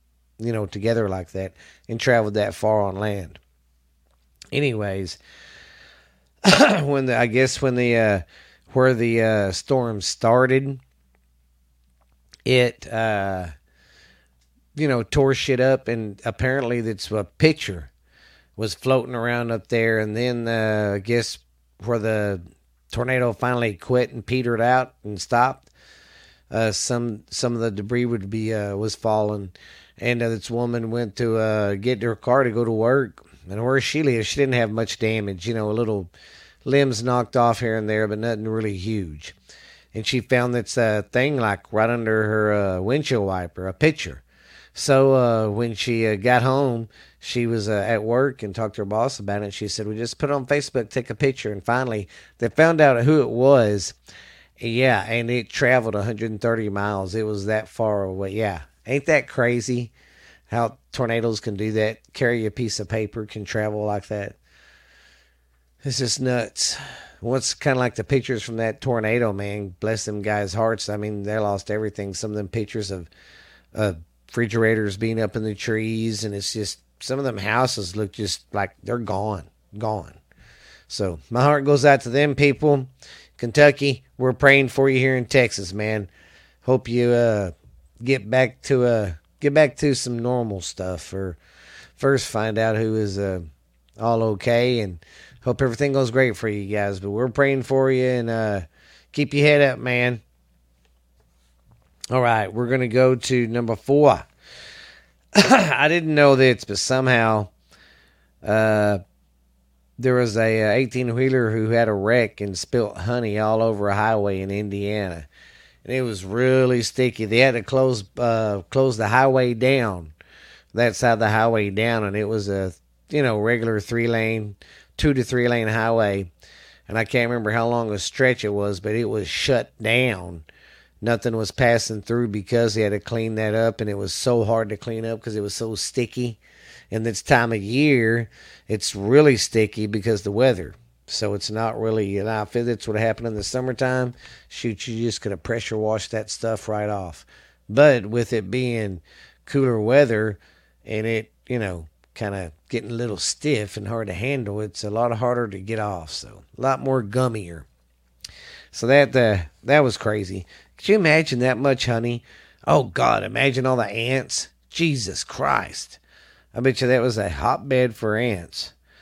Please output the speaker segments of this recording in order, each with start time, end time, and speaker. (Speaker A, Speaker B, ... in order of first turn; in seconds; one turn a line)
Speaker A: 0.4-3.4
Speaker A: 4.5-5.2
Speaker A: 6.4-10.8
Speaker A: 12.4-13.5
Speaker A: 14.8-17.9
Speaker A: 18.6-25.7
Speaker A: 26.5-36.1
Speaker A: 36.6-39.4
Speaker A: 39.9-44.2
Speaker A: 44.8-54.0
Speaker A: 54.6-59.9
Speaker A: 60.5-64.4
Speaker A: 65.8-73.1
Speaker A: 73.7-80.2
Speaker A: 80.9-86.1
Speaker A: 86.6-91.4
Speaker A: 92.0-93.5
Speaker A: 94.0-100.2
Speaker A: 102.1-104.3
Speaker A: 105.3-107.5
Speaker A: 108.4-109.0
Speaker A: 110.0-115.3
Speaker A: 115.8-120.1
Speaker A: 120.7-126.3
Speaker A: 126.9-130.5
Speaker A: 131.0-136.4
Speaker A: 136.9-157.7
Speaker A: 158.7-166.0
Speaker A: 166.5-168.7